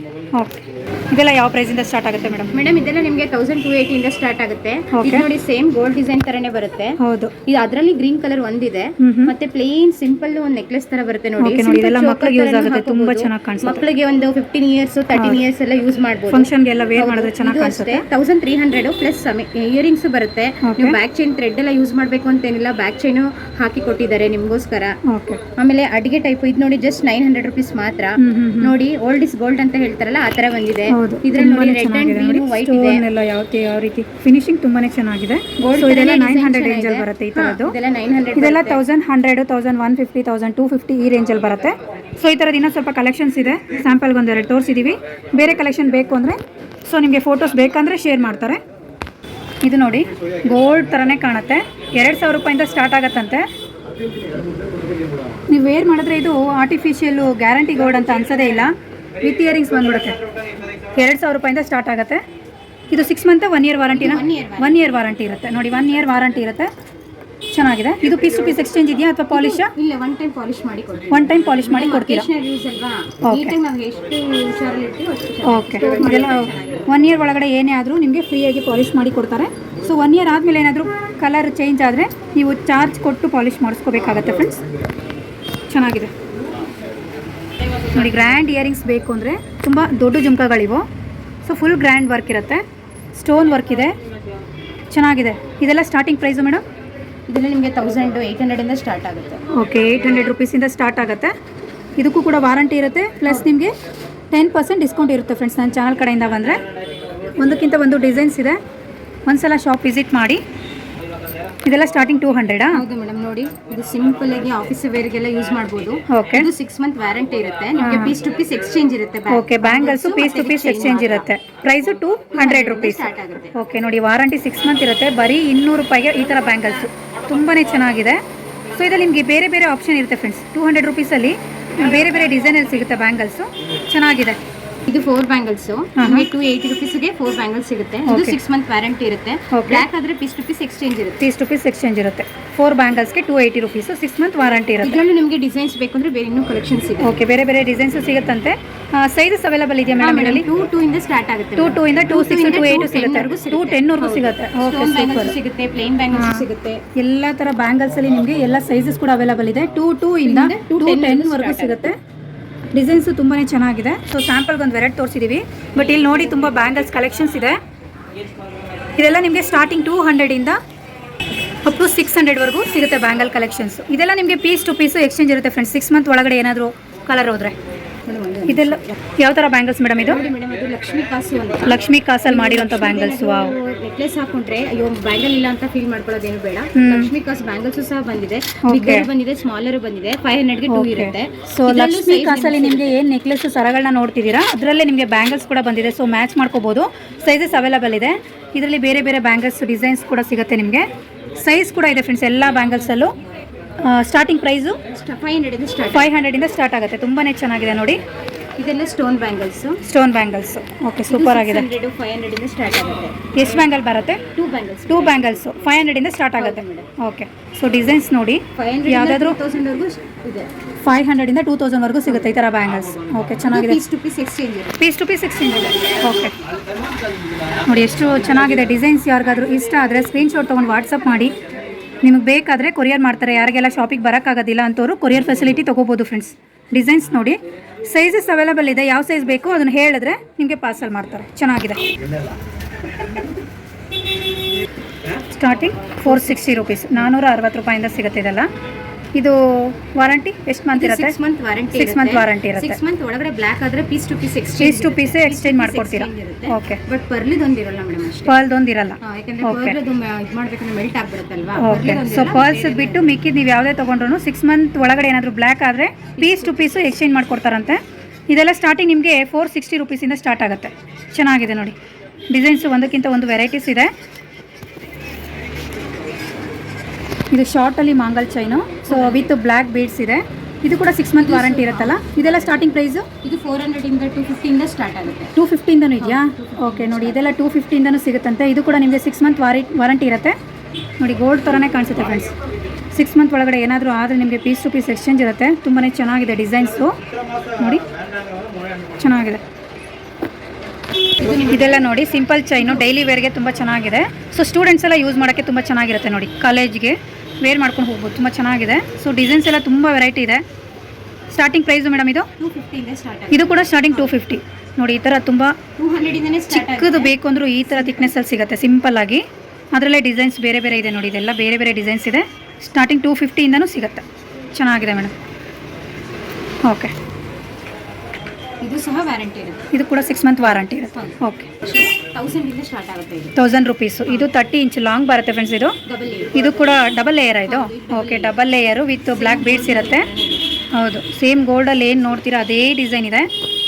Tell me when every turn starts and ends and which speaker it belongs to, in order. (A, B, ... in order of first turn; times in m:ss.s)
0:00.4-0:02.6 A
0:02.5-0:25.0 B
0:04.9-0:05.3 A
0:07.0-0:07.3 A
0:09.0-0:09.3 A
0:11.4-0:13.8 A
0:15.1-0:15.4 A
0:16.3-0:18.0 A
0:20.6-0:21.0 A
0:25.1-0:25.4 A
0:25.6-0:33.0 B
0:28.2-0:28.8 A
0:30.9-0:37.8 A
0:35.6-0:38.8 B
0:38.4-0:48.6 A
0:49.6-0:53.5 A
0:55.5-1:00.2 A
1:01.0-1:02.2 A
1:02.9-1:06.7 A
1:03.9-1:05.0 B
1:07.5-1:09.7 A
1:09.3-1:16.9 B
1:11.1-1:12.3 A
1:13.2-1:13.6 A
1:15.4-1:24.6 A
1:25.7-1:26.1 A
1:27.9-1:30.9 A
1:31.4-1:32.6 A
1:33.1-1:33.9 A
1:34.9-1:36.6 A
1:37.3-1:39.4 B
1:39.5-1:41.3 A
1:42.0-1:43.7 A
1:44.3-1:46.6 A
1:47.4-1:48.6 A
1:49.3-1:50.4 A
1:51.6-1:52.8 A
1:52.7-2:01.3 B
1:56.1-1:56.5 A
1:57.8-1:58.2 A
1:59.3-2:08.2 A
2:02.4-2:03.6 B
2:08.8-2:14.4 A
2:14.9-2:21.2 B
2:16.0-2:16.3 A
2:18.1-2:18.4 A
2:19.5-2:19.8 A
2:21.2-2:25.0 A
2:24.8-2:27.2 B
2:27.0-2:30.5 A
2:30.0-2:36.8 B
2:31.6-2:35.4 A
2:36.1-2:41.9 A
2:40.2-2:41.9 B
2:42.7-2:47.6 A
2:49.0-2:50.6 A
2:51.6-2:57.6 A
2:58.1-2:59.0 B
2:58.5-3:00.2 A
3:00.0-3:12.9 B
3:01.7-3:03.5 A
3:06.8-3:07.1 A
3:08.6-3:09.1 A
3:10.7-3:23.1 A
3:23.8-3:24.8 A
3:24.9-3:26.1 B
3:25.9-3:28.0 A
3:28.6-3:29.8 B
3:29.8-3:31.7 A
3:31.1-3:33.2 B
3:33.3-3:34.2 A
3:34.3-3:35.5 B
3:34.9-3:39.4 A
3:36.4-3:36.9 B
3:38.6-3:40.5 B
3:40.8-3:43.8 A
3:43.5-3:44.8 B
3:44.8-3:46.4 A
3:47.7-3:51.3 A
3:52.0-3:57.4 A
3:57.9-4:01.8 A
4:05.3-4:08.5 A
4:06.0-4:07.1 B
4:09.2-4:11.2 A
4:10.7-4:18.4 B
4:11.7-4:12.8 A
4:14.6-4:16.8 A
4:18.3-4:19.8 A
4:19.0-4:23.1 B
4:21.6-4:31.8 A
4:26.2-4:26.6 B
4:32.3-4:33.9 A
4:37.3-4:43.0 A
4:38.9-4:39.3 B
4:41.2-4:42.6 B
4:43.2-4:45.3 B
4:45.4-4:50.4 A
4:46.0-4:47.3 B
4:51.0-4:52.3 A
4:52.9-4:57.0 A
4:57.6-4:57.8 A
4:59.0-4:59.4 A
5:01.2-5:01.9 B
5:01.2-5:10.4 A
5:11.3-5:12.3 A
5:12.4-5:14.2 B
5:13.3-5:15.6 A
5:15.8-5:17.2 B
5:16.5-5:25.1 A
5:17.7-5:18.2 B
5:26.7-5:26.9 A
5:28.6-5:29.7 B
5:29.7-5:31.5 A
5:30.5-5:33.4 B
5:33.4-5:35.8 A
5:35.8-5:36.4 B
5:36.3-5:40.1 A
5:37.4-5:38.4 B
5:39.0-5:40.4 B
5:40.7-5:43.3 A